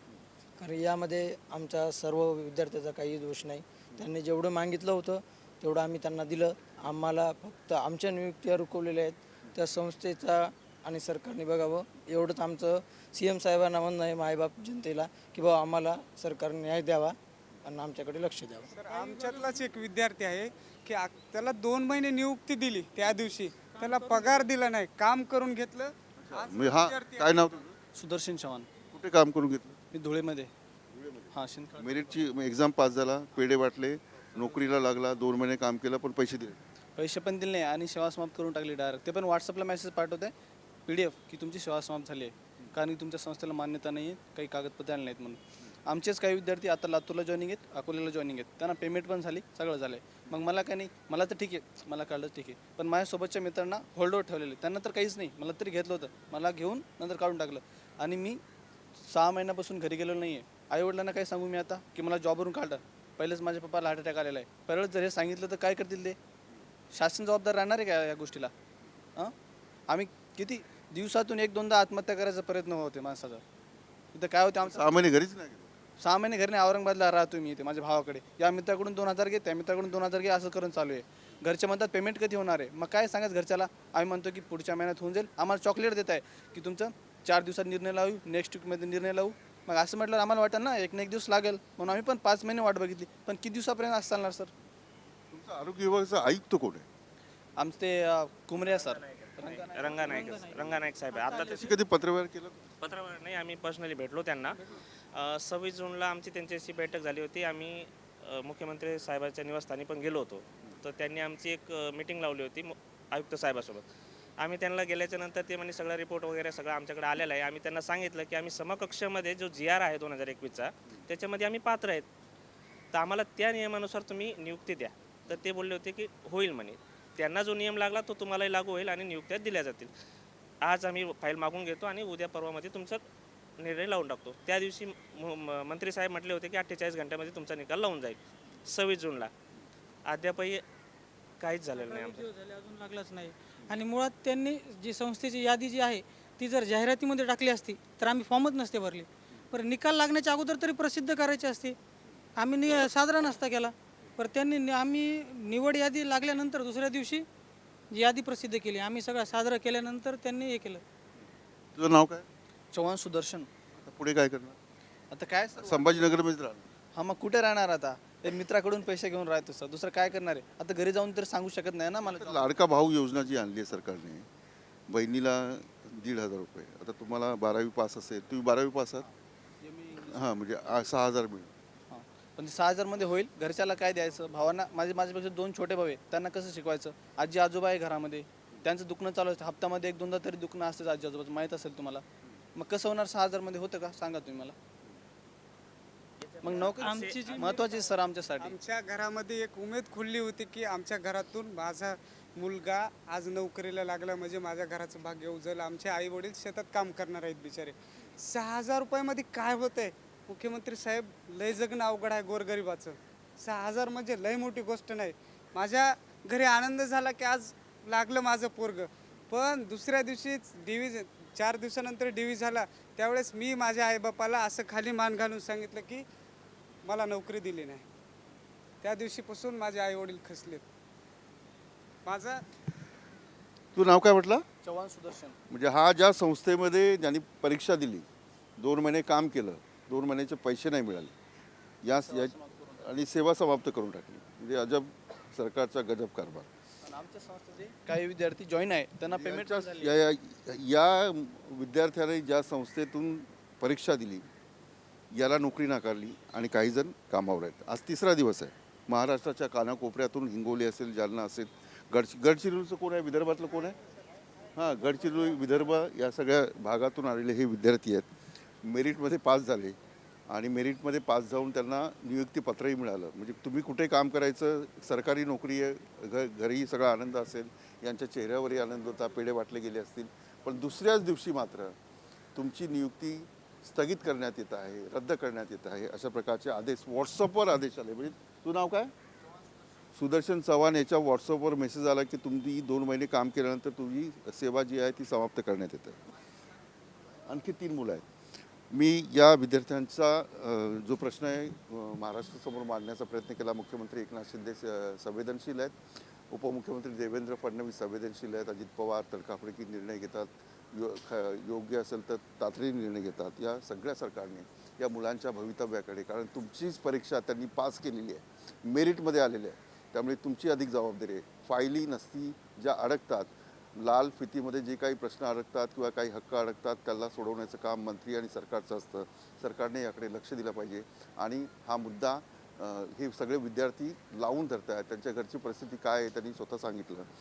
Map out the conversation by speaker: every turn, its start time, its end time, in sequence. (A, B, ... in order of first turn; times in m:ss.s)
0:00.6-0:18.8 A
0:18.7-0:27.6 B
0:18.8-0:19.7 C
0:23.7-0:24.5 C
0:26.2-0:27.7 D
0:27.9-0:28.7 E
0:28.9-0:29.8 D
0:29.9-0:30.5 E
0:30.9-0:36.6 D
0:31.3-0:32.1 E
0:37.0-0:40.3 E
0:40.8-0:58.4 E
0:59.1-1:06.2 E
1:06.9-1:08.5 E
1:09.9-1:13.4 E
1:14.1-1:14.9 E
1:14.6-1:15.7 D
1:16.0-1:34.5 E
1:35.3-1:36.9 D
1:37.6-1:40.6 E
1:38.6-1:41.7 F
1:40.0-1:41.8 C
1:41.4-1:42.6 D
1:42.8-1:44.6 F
1:45.1-1:53.8 F
1:54.4-2:02.0 F
2:02.9-2:09.9 F
2:10.6-2:13.0 F
2:13.6-2:19.3 F
2:20.0-2:20.6 F
2:21.4-2:22.3 F
2:21.7-2:31.8 C
2:32.4-2:37.2 C
2:37.9-2:40.8 C
2:41.7-2:42.2 D
2:42.7-2:43.5 E
2:43.7-2:44.6 D
2:45.1-2:46.1 E
2:45.6-2:46.6 D
2:46.9-2:52.5 E
2:52.0-2:54.2 D
2:54.9-2:59.0 D
2:59.6-3:00.2 E
3:00.0-3:01.5 D
3:01.9-3:12.0 E
3:12.5-3:14.5 E
3:16.2-3:17.6 F
3:16.4-3:18.6 E
3:16.8-3:17.7 C
3:18.4-3:46.0 B
3:46.8-3:47.8 B
3:48.8-3:50.6 B
3:52.0-3:52.4 B
3:53.7-3:54.4 D
3:54.6-3:55.4 E
3:55.5-3:58.1 D
3:58.6-4:01.1 D
4:01.8-4:06.5 D
4:02.0-4:02.8 E
4:06.8-4:10.0 E
4:09.1-4:14.3 D
4:15.1-4:23.8 D
4:24.5-4:29.8 D
4:30.3-4:41.8 D
4:42.3-4:48.9 D
4:49.9-4:56.0 D
4:57.2-4:58.0 D
4:58.7-5:05.8 D
5:06.3-5:37.1 D